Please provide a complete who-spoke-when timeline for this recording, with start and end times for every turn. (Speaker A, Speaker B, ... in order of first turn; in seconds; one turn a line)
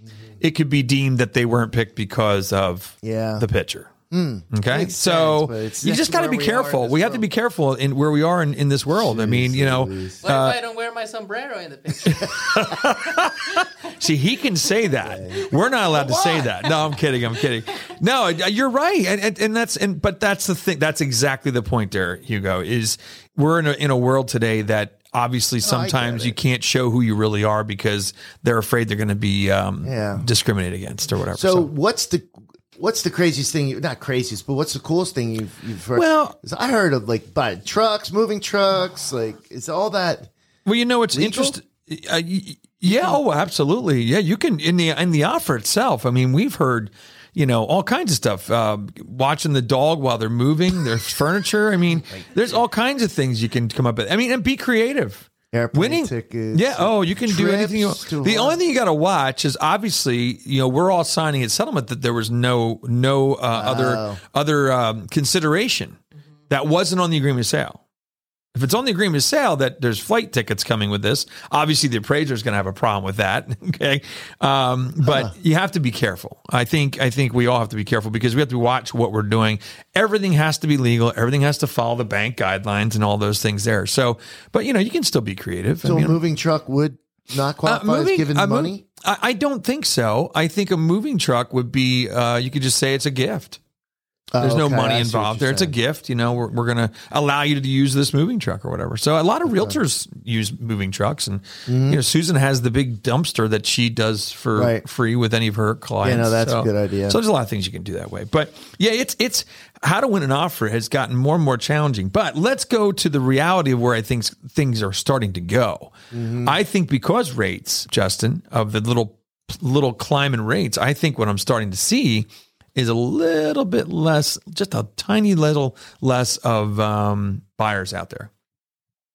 Speaker A: 0.4-3.9
Speaker B: 3.0-3.5
Speaker B: 4.1-7.3
Speaker A: 4.5-10.6
Speaker B: 8.9-10.2
Speaker C: 10.2-12.5
Speaker A: 12.0-31.7
Speaker B: 15.1-16.5
Speaker B: 25.6-26.4
Speaker B: 29.8-30.2
Speaker B: 31.3-40.3
Speaker A: 35.9-36.4
Speaker A: 40.6-67.8
Speaker B: 41.1-41.6
Speaker B: 42.9-43.2
Speaker B: 52.0-52.4
Speaker B: 55.5-58.6
Speaker B: 63.5-64.2
Speaker A: 68.5-86.2
Speaker B: 85.8-88.8
Speaker A: 87.6-93.6
Speaker B: 94.3-95.7
Speaker A: 94.4-128.3
Speaker B: 99.5-99.8
Speaker B: 101.7-102.0
Speaker B: 104.5-104.8
Speaker B: 106.0-107.2
Speaker B: 116.1-116.6